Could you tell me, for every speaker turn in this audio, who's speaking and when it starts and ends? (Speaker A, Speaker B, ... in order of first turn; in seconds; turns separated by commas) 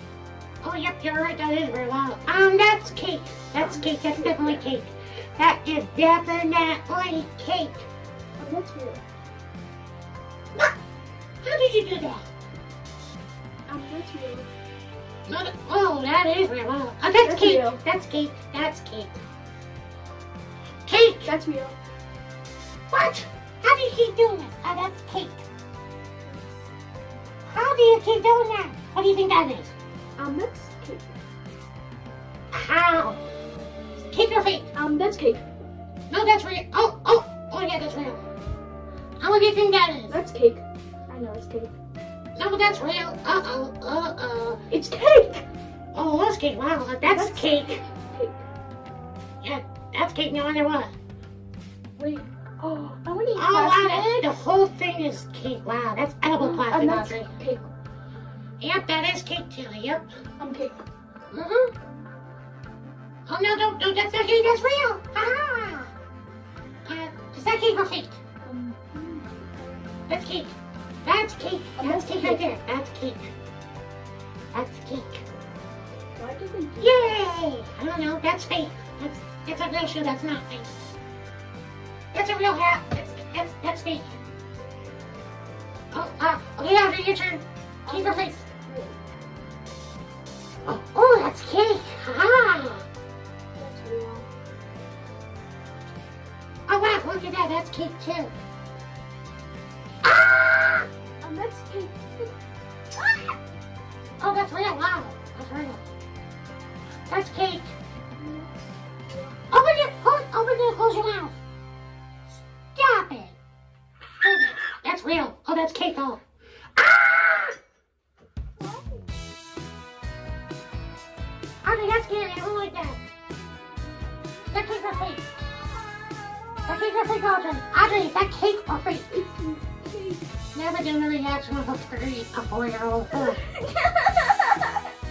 Speaker A: 0.6-7.8, Speaker B: 3.5-4.7, Speaker B: 8.4-9.0, Speaker A: 11.4-12.2, Speaker B: 13.7-14.5, Speaker A: 15.3-19.2, Speaker B: 17.1-17.8, Speaker A: 20.9-21.3, Speaker B: 21.2-21.8, Speaker A: 22.9-25.4, Speaker B: 26.2-26.6, Speaker A: 27.5-29.7, Speaker B: 30.2-31.2, Speaker A: 32.5-33.2, Speaker A: 34.1-34.7, Speaker B: 34.7-35.4, Speaker A: 36.1-38.2, Speaker A: 39.2-40.1, Speaker B: 40.1-41.7, Speaker A: 42.4-44.6, Speaker B: 44.7-45.4, Speaker A: 45.9-47.8, Speaker B: 47.0-48.4, Speaker A: 49.4-50.9, Speaker B: 52.0-54.3, Speaker A: 53.4-57.3, Speaker B: 56.3-57.7, Speaker A: 58.6-60.0, Speaker B: 60.4-60.8, Speaker A: 61.3-61.7, Speaker A: 63.3-65.9, Speaker A: 66.8-68.2, Speaker B: 68.4-69.5, Speaker A: 70.1-70.5, Speaker A: 71.0-73.3, Speaker B: 71.8-72.6, Speaker A: 74.5-75.2, Speaker B: 76.2-77.3, Speaker A: 76.8-80.7, Speaker A: 82.1-84.2, Speaker A: 85.9-88.4, Speaker B: 87.9-89.0, Speaker A: 90.7-92.8, Speaker B: 93.6-94.3, Speaker A: 96.7-98.3, Speaker A: 100.0-100.9, Speaker B: 101.2-102.3, Speaker A: 104.2-105.8, Speaker A: 107.1-107.7, Speaker B: 108.2-109.3, Speaker A: 109.5-111.3, Speaker A: 112.8-113.3, Speaker A: 114.2-116.2, Speaker A: 116.8-117.5, Speaker B: 118.6-119.0, Speaker A: 121.6-123.0, Speaker A: 124.5-125.3, Speaker A: 126.7-129.1, Speaker B: 129.1-130.3, Speaker A: 130.5-133.4, Speaker B: 133.1-134.6